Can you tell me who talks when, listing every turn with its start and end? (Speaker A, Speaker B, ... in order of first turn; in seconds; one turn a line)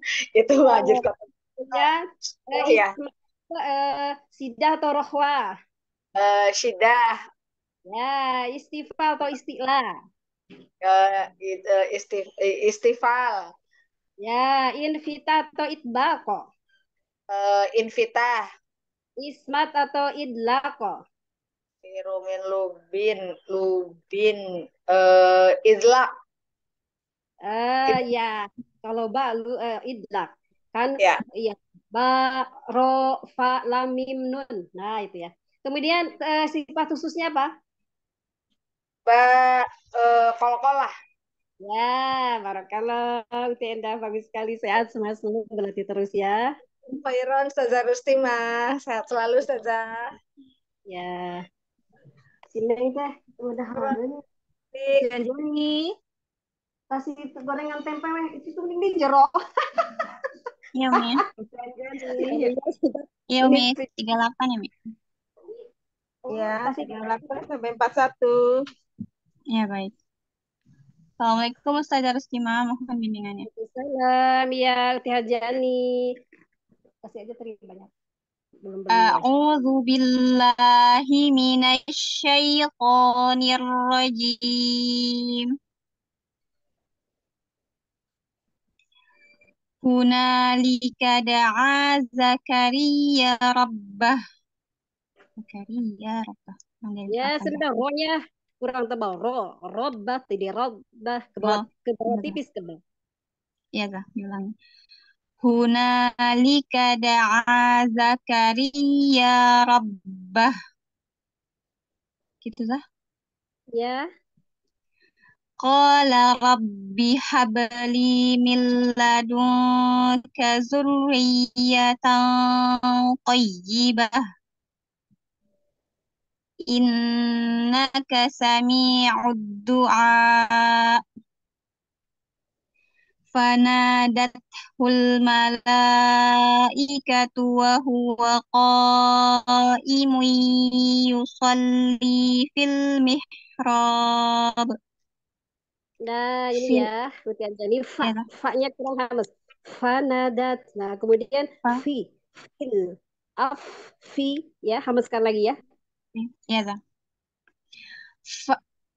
Speaker A: 0.3-1.9
Speaker B: 0.6-1.0
Speaker B: 1.7-2.0
Speaker A: 2.5-2.9
Speaker B: 2.5-5.4
Speaker A: 6.2-7.2
Speaker B: 7.9-9.9
Speaker A: 10.8-13.4
Speaker B: 14.2-16.4
Speaker A: 17.3-18.4
Speaker B: 19.2-20.9
Speaker A: 21.8-26.1
Speaker B: 27.5-37.5
Speaker A: 39.0-40.9
Speaker B: 41.6-46.5
Speaker A: 46.9-50.0
Speaker B: 50.9-51.4
Speaker B: 52.5-54.1
Speaker B: 55.0-55.8
Speaker B: 56.9-59.3
Speaker C: 60.7-61.2
Speaker D: 61.4-62.5
Speaker B: 62.0-63.9
Speaker C: 63.3-64.7
Speaker B: 66.3-67.4
Speaker D: 66.3-68.4
Speaker C: 69.5-69.9
Speaker C: 71.2-73.5
Speaker B: 73.5-75.8
Speaker B: 77.1-77.9
Speaker B: 78.6-79.3
Speaker C: 78.9-85.4
Speaker C: 89.8-94.2
Speaker C: 95.4-97.6
Speaker B: 97.1-102.8
Speaker C: 101.4-102.3
Speaker C: 103.7-104.5
Speaker C: 105.4-110.5
Speaker C: 112.4-112.8
Speaker B: 113.8-114.0
Speaker C: 115.6-119.5
Speaker C: 120.2-124.1
Speaker C: 127.7-130.6
Speaker C: 133.3-135.8
Speaker C: 136.8-139.4
Speaker C: 139.9-144.7
Speaker B: 146.1-152.1
Speaker C: 146.6-146.9
Speaker B: 152.6-155.6
Speaker C: 156.2-156.8